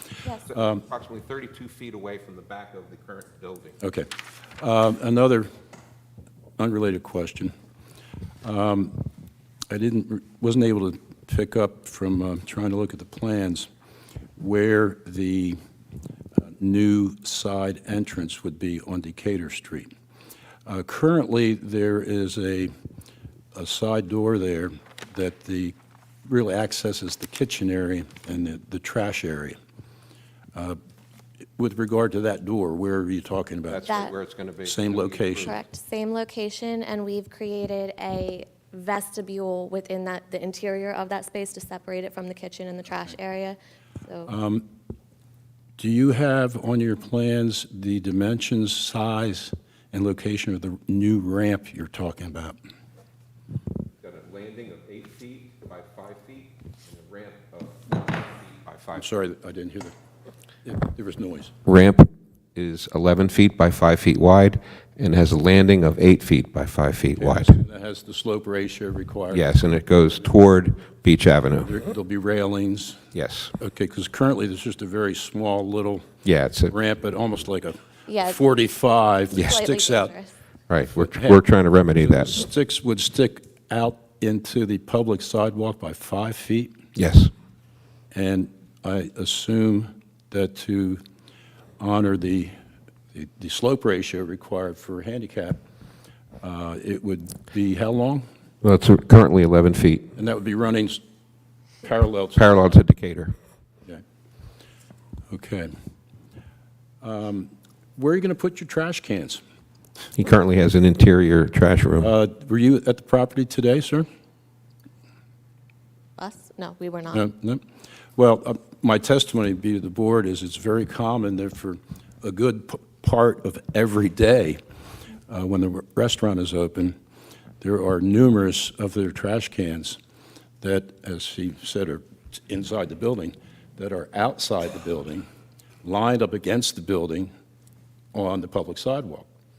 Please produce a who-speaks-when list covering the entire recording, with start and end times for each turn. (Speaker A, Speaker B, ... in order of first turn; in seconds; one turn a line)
Speaker A: 0.5-3.8
Speaker B: 0.5-0.8
Speaker B: 3.8-5.5
Speaker B: 6.6-7.5
Speaker B: 8.4-9.1
Speaker B: 9.7-13.7
Speaker B: 14.4-15.6
Speaker B: 16.4-19.9
Speaker B: 20.7-22.7
Speaker B: 23.5-25.8
Speaker B: 26.3-29.6
Speaker B: 31.6-33.9
Speaker A: 33.7-35.6
Speaker C: 33.8-34.1
Speaker B: 34.6-35.6
Speaker C: 35.5-44.3
Speaker B: 44.3-44.7
Speaker B: 45.8-52.6
Speaker A: 54.0-59.1
Speaker B: 58.9-59.9
Speaker B: 60.6-61.5
Speaker A: 61.6-67.6
Speaker B: 67.2-69.5
Speaker A: 69.3-71.8
Speaker B: 71.6-73.1
Speaker A: 73.1-73.5
Speaker B: 73.6-80.2
Speaker A: 76.2-76.7
Speaker C: 78.1-78.4
Speaker C: 79.3-80.4
Speaker A: 80.7-82.5
Speaker B: 80.9-86.8
Speaker A: 87.0-87.3
Speaker B: 88.1-91.0
Speaker B: 91.8-92.5
Speaker B: 93.1-95.6
Speaker B: 96.4-98.3
Speaker A: 98.6-100.1
Speaker B: 100.2-101.0
Speaker B: 101.8-102.8
Speaker A: 102.4-103.3
Speaker B: 105.3-105.7
Speaker B: 107.0-109.4
Speaker A: 110.2-112.1
Speaker B: 112.0-114.1
Speaker C: 116.2-117.2
Speaker B: 117.1-117.6
Speaker B: 118.2-124.6
Speaker B: 125.3-127.0
Speaker B: 127.6-130.0
Speaker B: 130.6-135.2
Speaker B: 135.8-137.3
Speaker B: 138.1-139.3